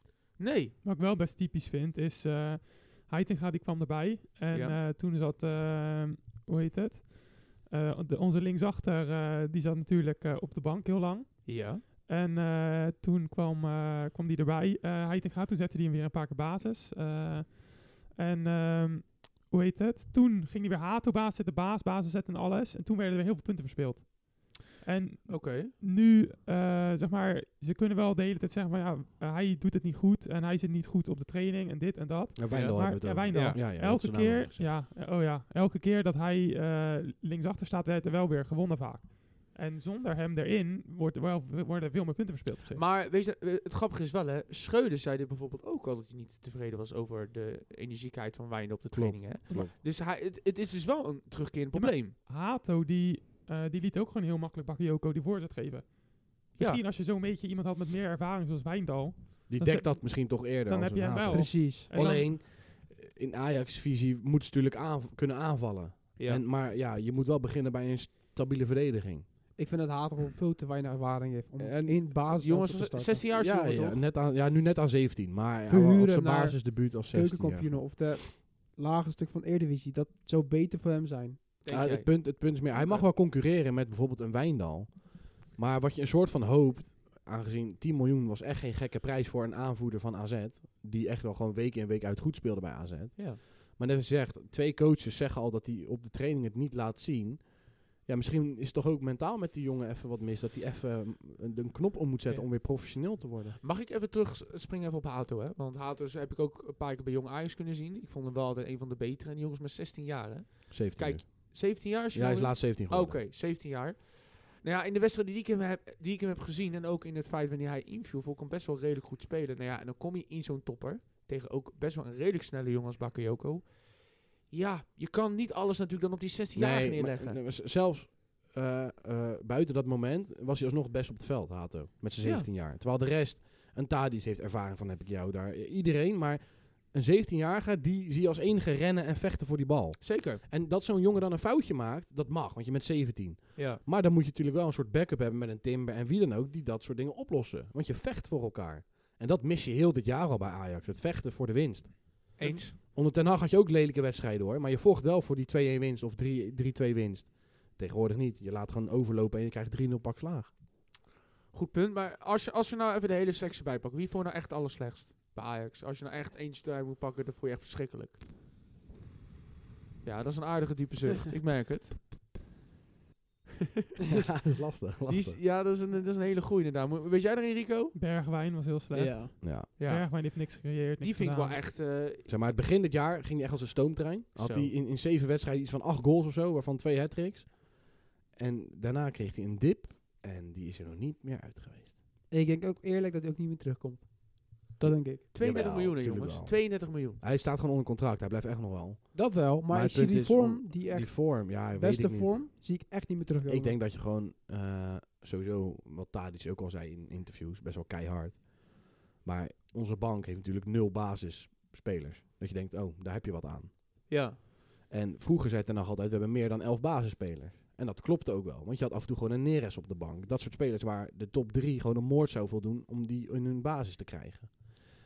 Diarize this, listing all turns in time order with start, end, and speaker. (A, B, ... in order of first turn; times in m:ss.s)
0:00.4-0:00.8 A
0:00.8-0:42.8 B
0:04.5-0:04.8 A
0:11.5-0:11.8 A
0:25.3-0:25.7 A
0:32.4-0:34.7 C
0:32.5-0:33.6 A
0:42.7-0:52.2 A
0:48.9-0:49.7 C
0:51.7-1:02.3 B
0:56.6-0:56.8 A
0:59.5-1:09.3 C
1:01.3-1:01.9 D
1:06.2-1:06.4 A
1:09.6-1:13.2 D
1:11.6-1:12.0 C
1:12.3-1:14.0 A
1:13.3-1:17.8 C
1:15.7-1:21.4 D
1:21.6-1:23.1 A
1:21.7-1:43.6 C
1:43.6-2:07.4 A
1:50.7-1:53.2 C
2:06.6-2:40.5 C
2:12.2-2:12.5 A
2:20.0-2:20.4 A
2:23.6-2:23.8 A
2:32.4-2:32.8 A
2:41.5-2:48.2 A
2:50.0-2:52.0 A
2:54.1-2:55.4 C
2:55.1-2:58.0 A
2:57.9-3:01.6 B
2:58.9-2:59.4 D
2:59.4-2:59.7 C
2:59.8-3:00.3 A
3:01.0-3:02.3 A
3:02.2-3:11.9 C
3:04.4-3:04.7 A
3:12.3-3:15.2 D
3:15.3-3:17.2 A
3:15.4-3:22.4 C
3:19.1-3:23.8 D
3:23.5-3:33.7 C
3:34.1-3:34.4 A
3:34.9-3:44.7 C